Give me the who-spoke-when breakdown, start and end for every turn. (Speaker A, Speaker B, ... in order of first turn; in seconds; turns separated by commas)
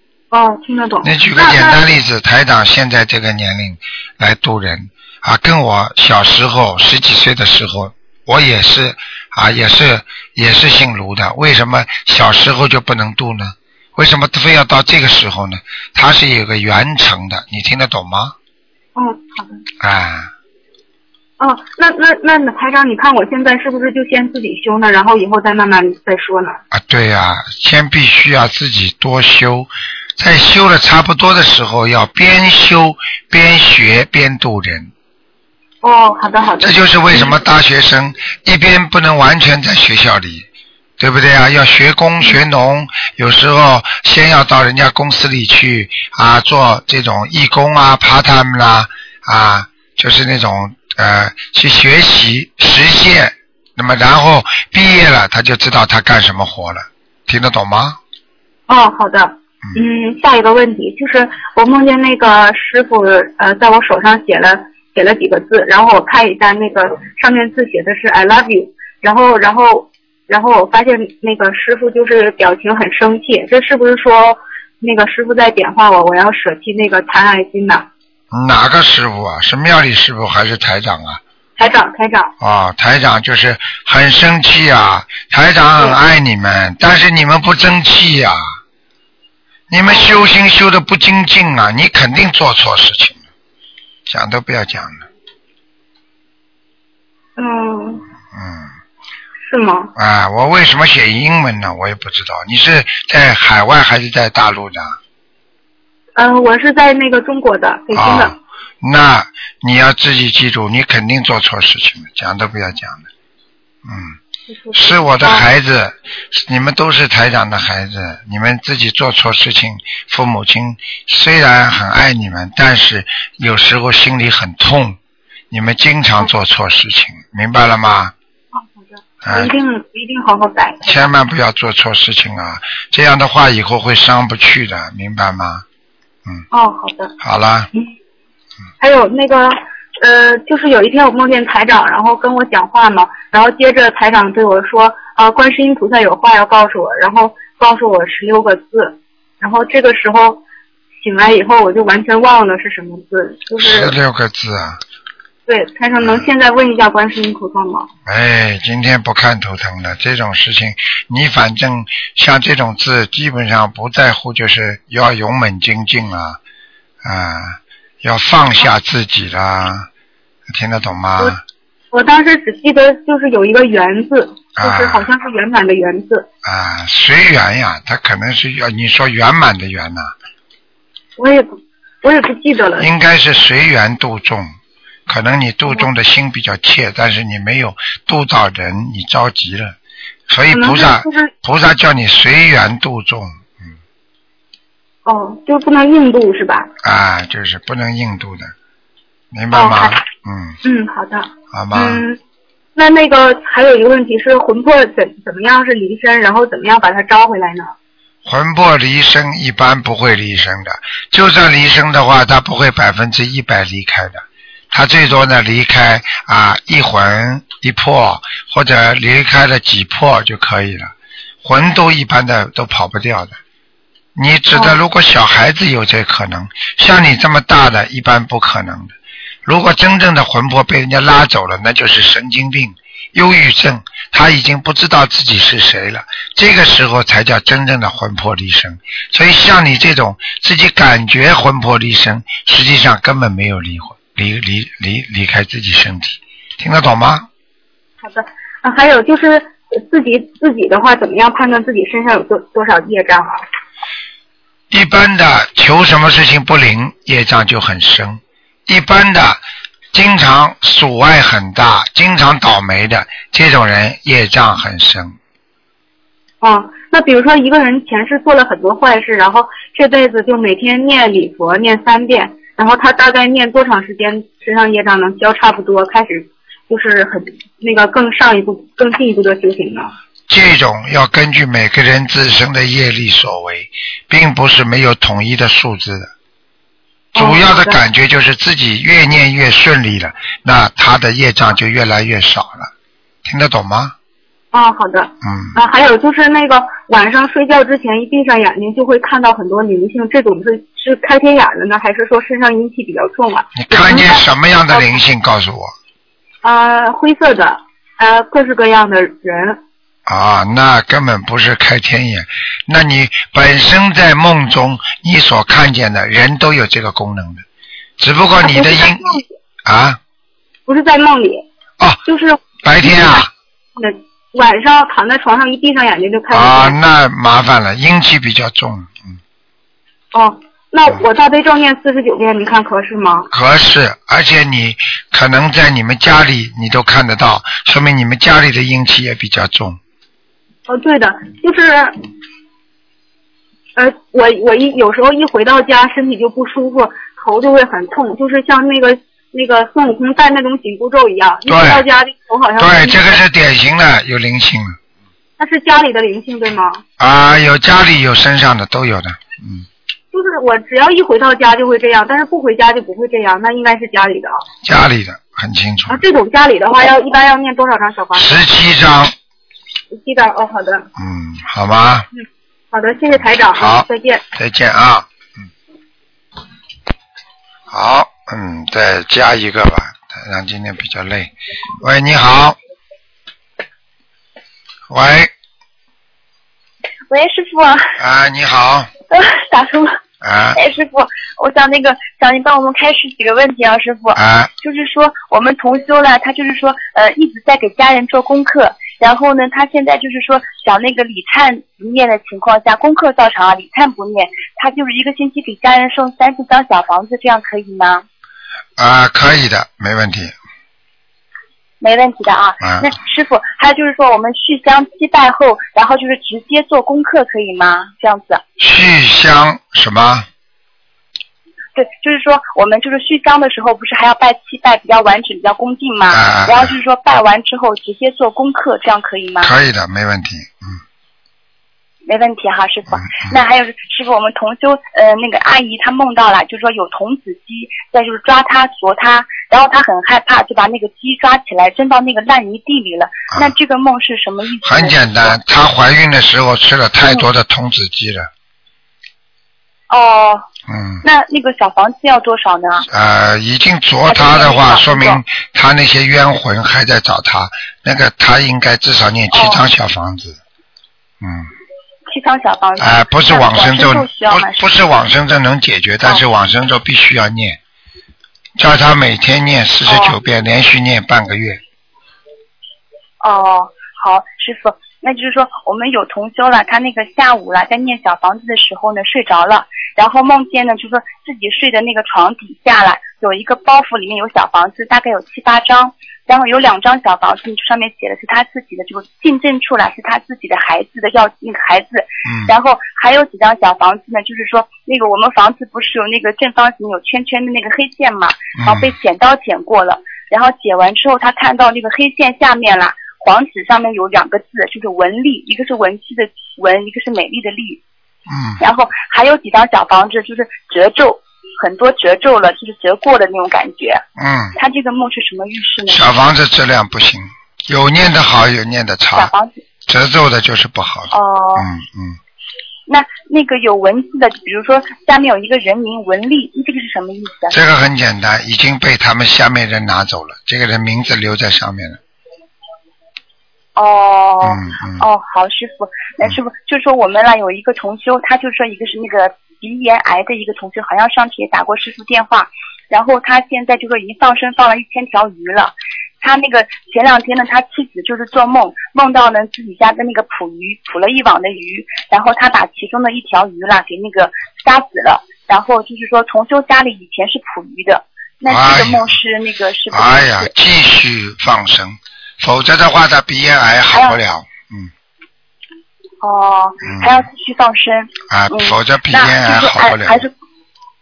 Speaker A: 0.3-1.8, Speaker B: 1.0-18.4, Speaker A: 18.9-19.6, Speaker B: 19.8-20.3, Speaker A: 21.4-26.6, Speaker B: 26.7-34.9, Speaker A: 35.8-37.4, Speaker B: 36.6-40.5, Speaker B: 41.0-58.0, Speaker A: 58.7-77.9, Speaker B: 78.3-81.2, Speaker A: 81.6-82.3, Speaker B: 82.4-88.5, Speaker B: 89.7-93.2, Speaker A: 89.8-90.2, Speaker B: 94.1-95.1, Speaker A: 97.4-98.0, Speaker B: 98.3-98.7, Speaker A: 99.4-99.9, Speaker B: 100.0-105.0, Speaker A: 106.2-108.4, Speaker B: 107.9-113.1, Speaker B: 113.8-114.2, Speaker A: 114.5-115.5, Speaker B: 114.8-125.0, Speaker B: 125.5-128.1, Speaker A: 128.5-131.1, Speaker B: 129.2-129.5, Speaker B: 130.8-135.6, Speaker A: 136.5-137.1, Speaker B: 137.2-137.7, Speaker A: 138.8-150.4, Speaker A: 151.0-154.0, Speaker B: 153.6-154.8, Speaker A: 155.5-157.9, Speaker B: 156.0-156.3, Speaker B: 158.1-166.4, Speaker B: 167.0-169.9, Speaker B: 170.5-171.4, Speaker A: 171.9-176.3, Speaker B: 174.6-175.1, Speaker B: 176.4-180.1, Speaker A: 181.2-182.9, Speaker B: 182.8-184.5, Speaker B: 185.1-189.8, Speaker B: 190.3-193.8, Speaker A: 190.5-191.3, Speaker A: 195.1-196.7, Speaker B: 196.8-198.5, Speaker B: 199.3-200.6, Speaker A: 199.5-200.0, Speaker A: 200.6-202.2, Speaker B: 201.5-202.0, Speaker A: 202.8-207.7, Speaker B: 208.2-220.9, Speaker B: 221.4-223.4, Speaker B: 224.2-247.3, Speaker A: 248.0-253.4, Speaker B: 254.7-259.4, Speaker B: 259.9-265.2, Speaker A: 266.4-279.9, Speaker B: 280.3-286.1, Speaker A: 287.1-287.8, Speaker B: 287.2-292.7, Speaker B: 293.2-293.9, Speaker A: 294.5-305.0, Speaker B: 295.2-295.6, Speaker B: 303.6-305.7, Speaker A: 306.4-309.6, Speaker B: 310.1-317.4, Speaker B: 318.0-320.0, Speaker A: 318.4-319.2, Speaker A: 320.7-321.5, Speaker A: 322.1-323.2, Speaker B: 322.6-323.3, Speaker A: 323.8-326.8, Speaker B: 326.3-329.2, Speaker A: 330.1-333.3, Speaker B: 333.3-339.8, Speaker A: 340.7-341.9, Speaker A: 343.8-353.2, Speaker B: 351.5-351.9, Speaker B: 352.6-354.8, Speaker A: 355.4-356.8, Speaker B: 357.0-359.7, Speaker A: 360.1-364.4, Speaker B: 364.6-366.0, Speaker A: 365.9-368.4, Speaker B: 368.1-369.1, Speaker A: 369.9-370.9, Speaker B: 371.0-372.1, Speaker A: 372.1-374.2, Speaker B: 373.1-375.5, Speaker B: 377.7-382.6, Speaker B: 384.9-385.3, Speaker C: 387.1-388.0, Speaker B: 388.0-388.9, Speaker C: 389.1-390.0, Speaker B: 390.2-390.6, Speaker C: 390.5-408.1, Speaker B: 394.1-394.5, Speaker B: 408.8-410.3, Speaker C: 411.8-418.4, Speaker B: 412.6-412.9, Speaker B: 418.6-420.3, Speaker C: 421.8-429.5, Speaker B: 426.1-426.8, Speaker B: 429.4-430.8, Speaker C: 432.1-445.4, Speaker B: 432.9-433.4, Speaker B: 444.6-448.3, Speaker C: 449.9-450.4, Speaker B: 450.7-451.1, Speaker C: 451.0-452.9, Speaker B: 452.9-460.4, Speaker C: 454.1-455.2, Speaker C: 459.3-459.6, Speaker B: 461.2-461.5, Speaker C: 462.1-464.7, Speaker B: 462.8-467.6, Speaker B: 468.6-471.6, Speaker C: 469.9-470.2, Speaker C: 473.2-507.8, Speaker B: 492.2-492.5, Speaker B: 498.6-499.0, Speaker B: 508.3-508.6, Speaker C: 508.6-514.0, Speaker B: 514.2-514.6, Speaker C: 514.6-516.1, Speaker B: 515.9-519.3, Speaker C: 519.1-519.6, Speaker B: 519.9-522.2, Speaker C: 521.1-521.7, Speaker C: 522.9-527.6, Speaker B: 527.5-532.0, Speaker C: 533.8-560.5, Speaker B: 534.4-535.0, Speaker B: 558.5-559.2, Speaker B: 559.9-564.9, Speaker C: 563.9-564.2, Speaker C: 566.2-570.3, Speaker B: 566.9-567.3, Speaker B: 568.3-570.3